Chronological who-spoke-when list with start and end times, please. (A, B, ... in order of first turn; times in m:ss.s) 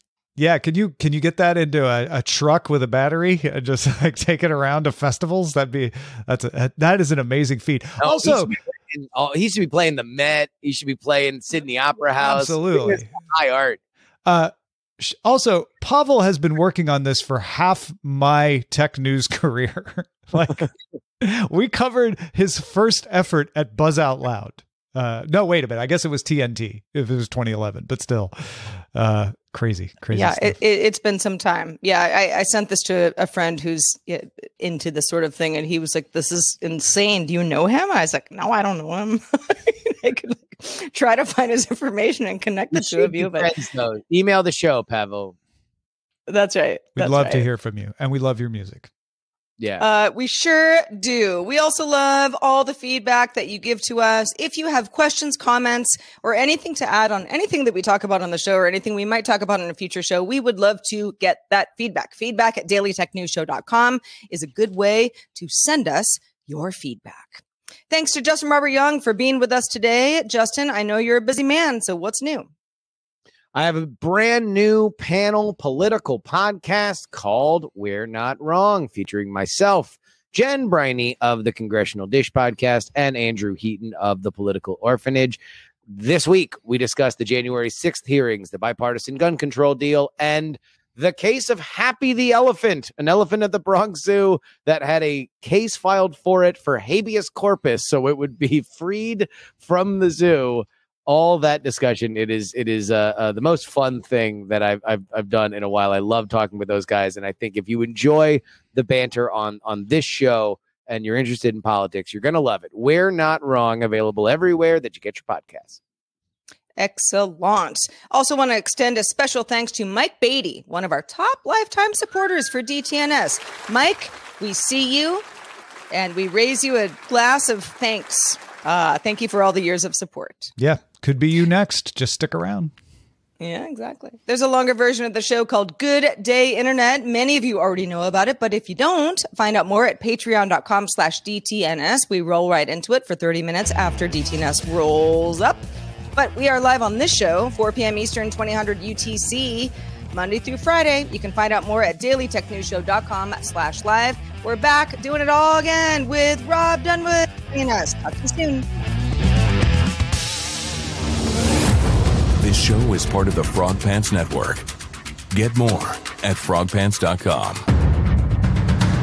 0:00.4-0:08.5 A
0:08.0-0:13.8 B
0:12.2-0:13.1 A
0:14.3-0:20.7 A
0:21.2-0:30.6 A
0:30.1-0:43.5 C
0:42.7-0:45.4 B
0:46.3-0:47.4 C
0:47.0-0:48.9 A
0:49.6-0:49.8 B
0:49.8-1:12.5 C
1:13.5-1:55.8 B
1:56.8-2:05.2 C
2:05.9-2:10.5 C
2:10.6-2:12.7 A
2:13.4-2:25.6 C
2:26.2-2:38.6 C
2:42.4-2:44.6 D
2:45.3-2:47.6 D